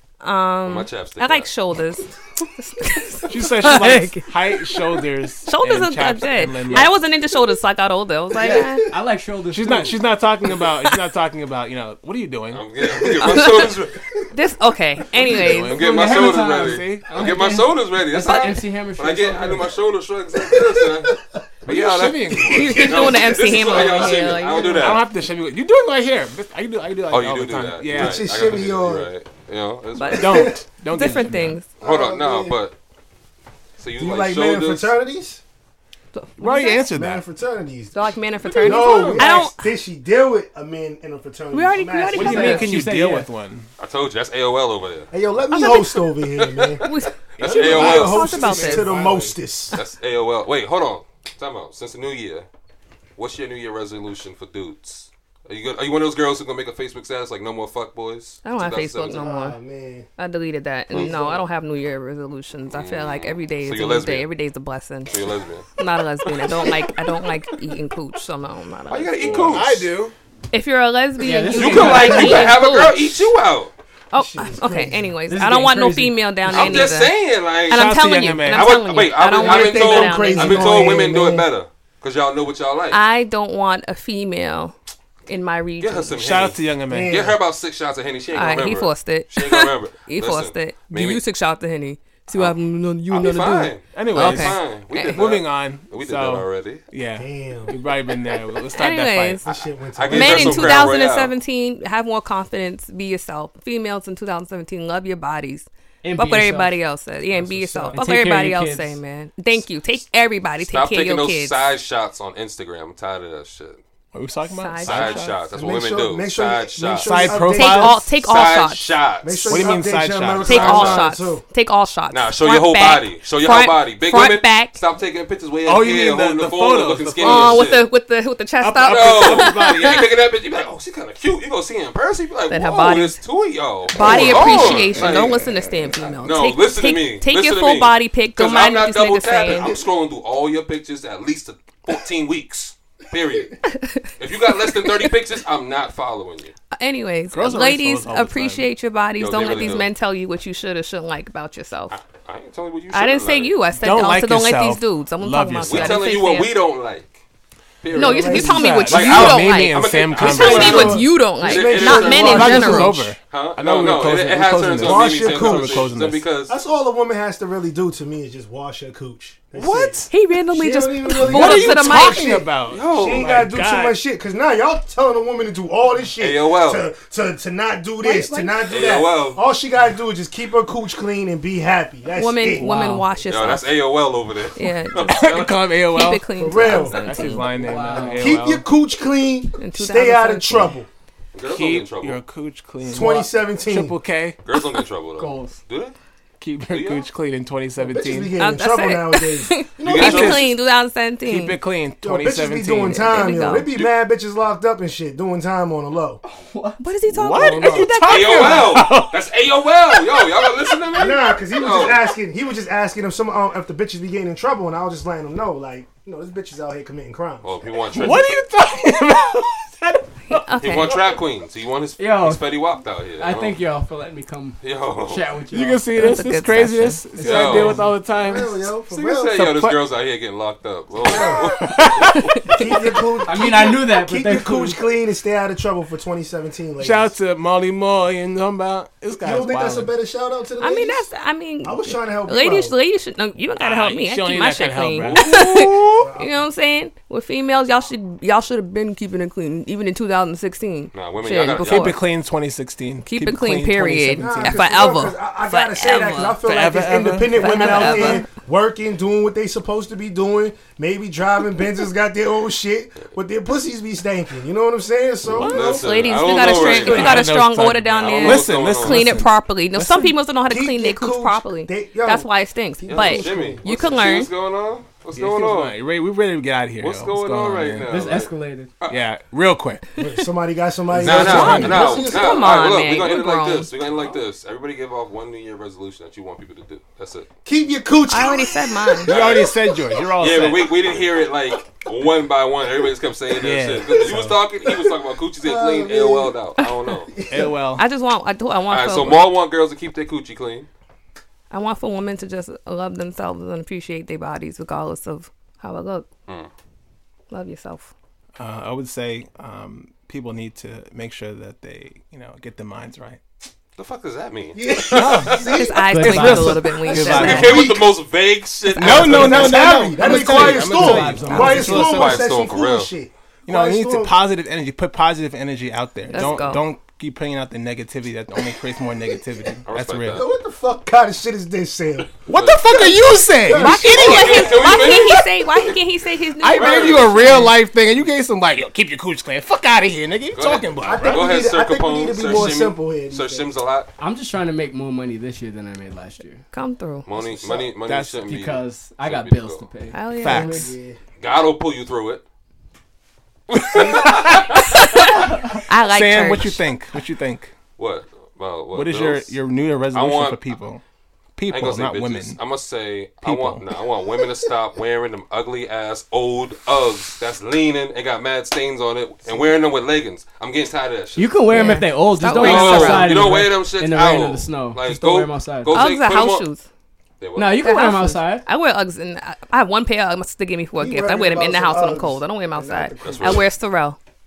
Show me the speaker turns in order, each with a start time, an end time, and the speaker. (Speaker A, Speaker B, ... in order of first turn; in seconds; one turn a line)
Speaker A: 0.2-8.9
Speaker B: 0.6-1.5
Speaker C: 3.3-7.0
Speaker D: 8.4-10.0
Speaker E: 8.4-8.7
Speaker C: 9.5-13.1
Speaker A: 10.4-11.0
Speaker B: 12.5-14.2
Speaker A: 13.0-13.7
Speaker A: 14.3-15.8
Speaker C: 15.1-17.2
Speaker B: 15.6-25.0
Speaker D: 15.8-19.7
Speaker A: 17.2-17.6
Speaker E: 20.5-20.9
Speaker C: 21.7-23.0
Speaker A: 22.4-25.0
Speaker E: 22.6-24.8
Speaker C: 24.7-28.5
Speaker B: 27.1-30.5
Speaker E: 27.9-29.1
Speaker A: 29.9-31.6
Speaker C: 30.1-31.6
Speaker E: 30.2-30.6
Speaker B: 31.8-32.8
Speaker E: 31.8-32.6
Speaker B: 33.8-34.9
Speaker E: 34.0-35.4
Speaker A: 36.1-36.9
Speaker C: 36.4-37.2
Speaker E: 36.9-38.0
Speaker A: 37.9-39.7
Speaker C: 38.5-39.4
Speaker E: 38.6-42.6
Speaker A: 41.5-42.7
Speaker C: 42.1-43.7
Speaker D: 42.2-43.3
Speaker B: 43.8-45.1
Speaker E: 45.1-46.8
Speaker A: 45.5-45.9
Speaker B: 46.3-48.3
Speaker A: 46.8-49.0
Speaker C: 47.4-49.4
Speaker E: 47.4-49.8
Speaker B: 49.7-52.5
Speaker B: 53.2-59.2
Speaker A: 58.4-59.6
Speaker E: 59.1-60.1
Speaker A: 60.2-65.1
Speaker B: 60.9-61.2
Speaker E: 60.9-61.4
Speaker B: 62.7-64.3
Speaker B: 65.1-65.7
Speaker A: 65.8-69.7
Speaker B: 66.2-66.9
Speaker B: 68.9-69.9
Speaker C: 69.2-70.1
Speaker A: 70.5-73.2
Speaker D: 71.2-72.5
Speaker B: 71.5-73.7
Speaker A: 74.1-77.1
Speaker E: 74.2-75.1
Speaker D: 75.3-76.9
Speaker B: 76.5-77.9
Speaker A: 77.7-81.1
Speaker C: 77.7-78.8
Speaker B: 78.5-83.0
Speaker E: 79.4-81.5
Speaker A: 82.9-84.7
Speaker A: 85.3-86.2
Speaker B: 85.8-91.2
Speaker C: 86.1-87.2
Speaker E: 86.9-87.4
Speaker A: 88.3-95.3
Speaker B: 92.3-92.5
Speaker B: 93.1-96.8
Speaker C: 93.9-99.4
Speaker E: 97.2-97.8
Speaker A: 98.7-99.4
Speaker E: 99.4-100.9
Speaker B: 100.0-101.3
Speaker A: 100.1-111.7
Speaker D: 106.0-106.8
Speaker E: 107.3-108.0
Speaker D: 107.9-109.0
Speaker B: 110.6-113.8
Speaker C: 114.1-115.5
Speaker A: 114.5-115.2
Speaker B: 114.8-117.4
Speaker E: 115.5-118.0
Speaker C: 116.9-118.1
Speaker A: 117.4-118.8
Speaker B: 118.1-119.8
Speaker E: 119.2-121.4
Speaker C: 119.5-121.0
Speaker B: 120.4-121.0
Speaker A: 120.4-124.8
Speaker B: 122.1-127.8
Speaker C: 125.6-127.7
Speaker A: 127.2-130.1
Speaker C: 128.6-130.1
Speaker B: 128.8-135.4
Speaker A: 132.5-133.2
Speaker A: 133.9-139.7
Speaker E: 134.0-135.3
Speaker C: 134.3-135.6
Speaker B: 136.2-143.6
Speaker E: 139.5-139.8
Speaker A: 143.6-145.1
Speaker B: 144.2-146.5
Speaker A: 146.7-152.0
Speaker C: 147.3-148.7
Speaker B: 149.2-149.9
Speaker B: 151.9-153.6
Speaker A: 152.9-156.5
Speaker C: 153.8-156.1
Speaker B: 155.6-157.2
Speaker B: 157.8-166.6
Speaker A: 157.9-163.0
Speaker E: 158.0-158.7
Speaker C: 158.2-161.0
Speaker E: 160.2-163.1
Speaker C: 162.1-166.2
Speaker E: 164.8-165.9
Speaker E: 166.5-182.7
Speaker C: 169.6-170.0
Speaker A: 170.1-172.4
Speaker C: 171.1-174.0
Speaker B: 172.7-173.5
Speaker B: 176.2-176.9
Speaker A: 178.0-178.8
Speaker B: 178.7-179.4
Speaker A: 182.2-183.7
Speaker D: 182.6-183.1
Speaker B: 183.3-185.6
Speaker A: 184.6-187.6
Speaker C: 185.1-188.6
Speaker E: 186.3-187.0
Speaker D: 187.5-188.3
Speaker E: 188.2-190.9
Speaker A: 189.6-190.8
Speaker B: 191.3-192.2
Speaker C: 191.5-194.4
Speaker E: 192.8-194.0
Speaker B: 194.4-195.9
Speaker D: 195.2-195.6
Speaker C: 196.4-198.3
Speaker B: 196.7-197.1
Speaker E: 197.8-200.4
Speaker A: 198.4-201.6
Speaker B: 199.8-200.5
Speaker C: 200.0-200.4
Speaker C: 201.2-203.1
Speaker E: 202.0-206.2
Speaker A: 202.9-203.7
Speaker D: 206.2-206.8
Speaker A: 206.8-208.8
Speaker C: 207.1-209.2
Speaker B: 208.0-212.1
Speaker C: 209.9-210.8
Speaker E: 210.9-217.6
Speaker B: 217.4-218.3
Speaker C: 217.9-221.0
Speaker A: 220.3-221.0
Speaker B: 220.6-223.6
Speaker D: 222.0-222.5
Speaker D: 223.2-225.9
Speaker B: 224.6-225.3
Speaker C: 225.5-228.7
Speaker A: 225.9-227.0
Speaker D: 227.1-227.9
Speaker B: 227.2-227.8
Speaker E: 228.1-229.3
Speaker B: 228.9-232.3
Speaker C: 229.3-229.8
Speaker E: 231.0-231.6
Speaker C: 231.4-232.4
Speaker A: 232.3-233.0
Speaker E: 232.5-237.1
Speaker D: 233.2-234.8
Speaker C: 236.8-239.9
Speaker E: 239.2-241.1
Speaker A: 240.6-252.1
Speaker E: 241.6-242.7
Speaker C: 243.6-246.1
Speaker E: 246.0-246.4
Speaker B: 250.9-252.0
Speaker C: 251.6-254.9
Speaker A: 253.1-256.5
Speaker E: 254.2-266.7
Speaker C: 256.4-258.2
Speaker A: 257.3-258.3
Speaker B: 265.2-267.3
Speaker C: 265.3-265.8
Speaker A: 265.5-274.3
Speaker C: 266.3-270.1
Speaker B: 268.0-269.1
Speaker E: 270.5-274.0
Speaker B: 272.9-275.7
Speaker C: 275.1-278.0
Speaker B: 276.8-278.3
Speaker D: 277.9-278.7
Speaker C: 278.9-279.9
Speaker E: 280.0-282.5
Speaker C: 280.9-282.0
Speaker B: 281.0-287.3
Speaker A: 281.2-283.7
Speaker E: 287.4-289.1
Speaker A: 288.1-289.1
Speaker C: 289.1-291.1
Speaker B: 289.1-289.5
Speaker B: 290.2-297.1
Speaker C: 293.4-294.4
Speaker E: 294.6-296.4
Speaker E: 297.1-297.6
Speaker C: 297.3-297.8
Speaker A: 297.8-299.3
Speaker B: 298.7-300.7
Speaker A: 301.5-306.1
Speaker A: 307.3-307.9
Speaker C: 308.4-313.2
Speaker B: 313.8-315.5
Speaker E: 314.5-316.1
Speaker C: 314.9-317.8
Speaker A: 315.5-317.9
Speaker D: 315.9-317.4
Speaker E: 316.9-317.4
Speaker B: 317.1-320.6
Speaker A: 318.7-319.6
Speaker C: 318.7-322.4
Speaker E: 318.8-324.2
Speaker D: 320.3-321.9
Speaker B: 321.4-322.9
Speaker C: 323.5-330.2
Speaker A: 326.1-326.6
Speaker B: 329.7-330.2
Speaker E: 330.1-332.1
Speaker C: 332.2-335.2
Speaker B: 332.3-333.0
Speaker E: 333.4-334.1
Speaker A: 333.6-337.6
Speaker B: 333.7-335.8
Speaker C: 336.4-341.3
Speaker B: 336.6-337.4
Speaker B: 340.3-343.9
Speaker E: 340.8-343.5
Speaker D: 344.0-346.4
Speaker A: 346.5-347.1
Speaker B: 347.1-349.6
Speaker C: 347.2-348.2
Speaker D: 348.2-350.7
Speaker A: 349.9-350.7
Speaker C: 350.2-350.7
Speaker E: 350.6-351.0
Speaker B: 351.2-352.2
Speaker B: 353.5-354.8
Speaker C: 353.5-354.5
Speaker E: 353.7-354.1
Speaker A: 354.7-356.7
Speaker C: 355.8-357.5
Speaker B: 357.8-359.4
Speaker C: 358.7-360.8
Speaker B: 359.9-360.4
Speaker C: 361.4-362.4
Speaker B: 361.5-371.7
Speaker C: 363.2-363.7
Speaker D: 371.1-375.8
Speaker A: 371.5-373.2
Speaker B: 372.3-376.4
Speaker A: 375.7-376.6
Speaker B: 377.2-377.6
Speaker D: 377.4-378.4
Speaker A: 377.5-384.0
Speaker E: 380.8-383.4
Speaker B: 383.0-383.4